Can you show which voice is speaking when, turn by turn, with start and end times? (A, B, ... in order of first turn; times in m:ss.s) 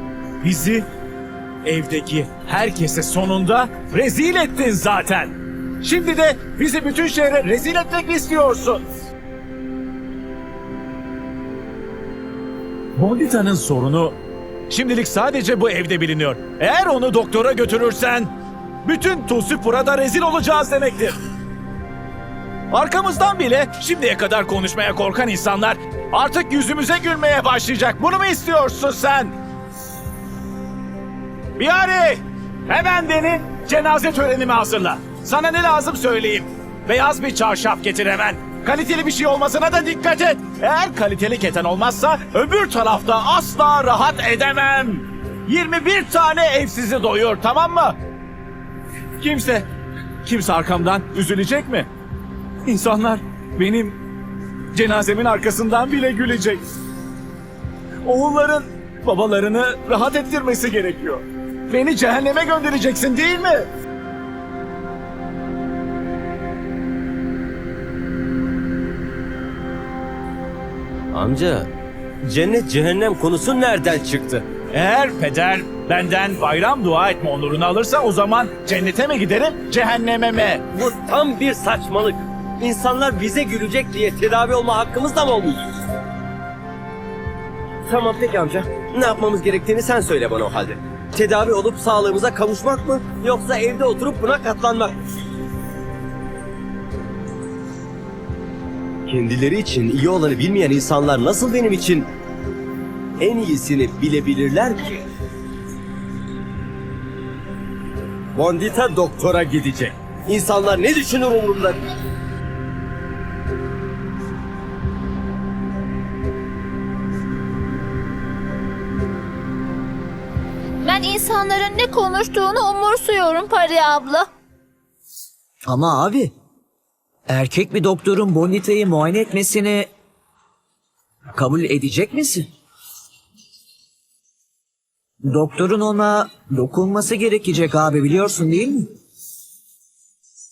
0:00.4-0:00.8 A
0:01.6-0:08.8 A
0:13.0-0:14.2 A
0:14.7-0:18.3 A
0:18.8-0:21.2 A
0:22.7-0:29.3 A
0:31.6-0:48.0 A
0:49.2-0:49.7 A
0:50.2-0:51.9 A
0:52.7-0:54.0 A
0:54.7-0:56.6 A
0:58.0-1:03.7 A
1:11.1-1:11.7 B
1:12.2-1:14.5 B
1:14.7-1:20.6 A
1:20.7-1:25.7 B
1:27.9-1:35.0 B
1:39.1-1:42.1 B
1:43.2-1:45.0 B
1:48.4-1:51.8 B
2:00.8-2:04.3 C
2:05.7-2:06.3 D
2:07.3-2:09.9 D
2:11.3-2:12.5 D
2:15.2-2:18.9 D